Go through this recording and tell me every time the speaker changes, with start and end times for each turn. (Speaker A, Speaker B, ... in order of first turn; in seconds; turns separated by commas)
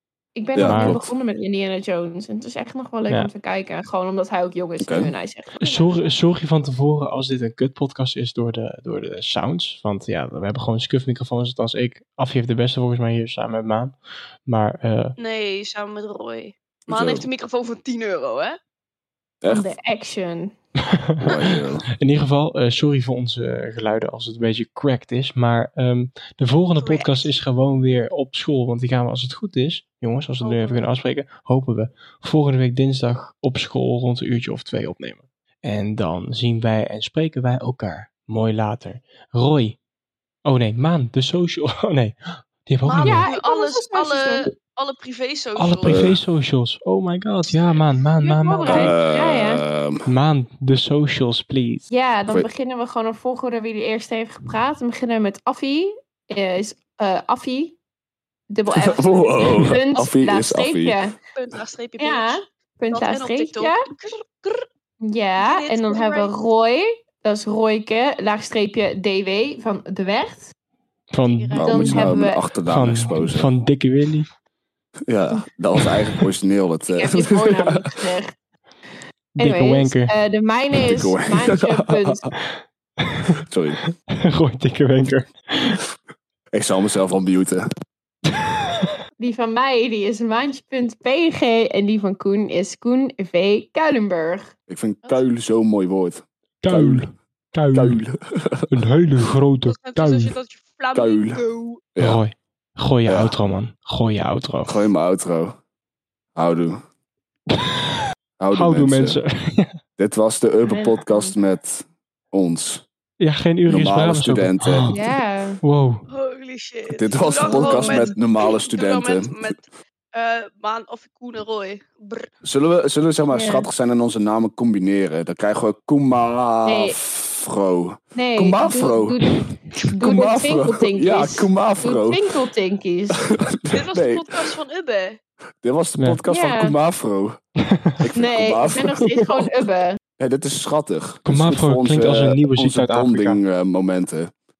Speaker A: 0.4-6.2, Speaker B: 0.6-1.1, Speaker C: 0.6-1.0, Speaker B: 4.8-5.1, Speaker C: 5.6-15.2, Speaker D: 15.2-18.6, Speaker B: 16.9-17.3, Speaker B: 19.4-19.7, Speaker A: 19.5-20.5, Speaker C: 21.0-39.8, Speaker B: 21.2-21.9, Speaker D: 26.8-27.3, Speaker D: 30.4-30.9, Speaker C: 40.5-43.2, Speaker D: 42.8-46.1, Speaker A: 43.0-44.5, Speaker C: 45.6-48.9, Speaker B: 45.9-46.2, Speaker A: 48.2-49.6, Speaker B: 48.7-50.0, Speaker C: 50.1-51.9, Speaker A: 51.9-57.8, Speaker A: 58.5-61.1, Speaker B: 58.8-61.0, Speaker D: 61.4-62.4, Speaker A: 62.0-63.9, Speaker D: 62.9-64.7, Speaker A: 65.0-70.5, Speaker D: 65.4-66.3, Speaker C: 71.1-72.2, Speaker D: 71.2-71.7, Speaker B: 71.6-73.5, Speaker A: 71.6-72.4, Speaker C: 72.7-74.3, Speaker B: 75.1-77.8, Speaker A: 76.9-78.3, Speaker C: 79.4-80.1, Speaker A: 79.4-82.3, Speaker B: 80.9-82.3, Speaker C: 83.0-83.4, Speaker B: 83.3-83.8, Speaker C: 84.0-85.8, Speaker B: 86.5-87.7, Speaker C: 88.5-89.0, Speaker A: 89.2-94.5, Speaker B: 94.7-97.1, Speaker C: 96.6-98.0, Speaker B: 97.7-98.8, Speaker C: 98.7-100.3, Speaker D: 99.6-101.8, Speaker B: 100.9-101.4, Speaker B: 102.0-102.2, Speaker C: 102.0-104.8, Speaker B: 103.1-103.3, Speaker B: 104.7-105.6, Speaker B: 106.4-106.8, Speaker B: 108.4-109.2, Speaker C: 108.5-109.8, Speaker B: 110.0-112.8, Speaker A: 110.6-111.4, Speaker C: 113.2-116.0, Speaker B: 113.7-114.9, Speaker A: 114.9-115.6, Speaker D: 116.1-122.3, Speaker B: 116.9-119.5, Speaker A: 117.4-118.2, Speaker B: 122.4-129.2, Speaker A: 123.3-123.7, Speaker A: 126.7-127.0, Speaker A: 128.2-133.3, Speaker B: 130.0-132.2, Speaker B: 133.2-134.4, Speaker D: 133.7-135.2, Speaker B: 135.6-137.4, Speaker A: 136.3-136.8, Speaker C: 137.6-138.0, Speaker B: 138.0-139.5, Speaker A: 138.2-140.0, Speaker B: 140.2-144.3, Speaker C: 141.3-143.4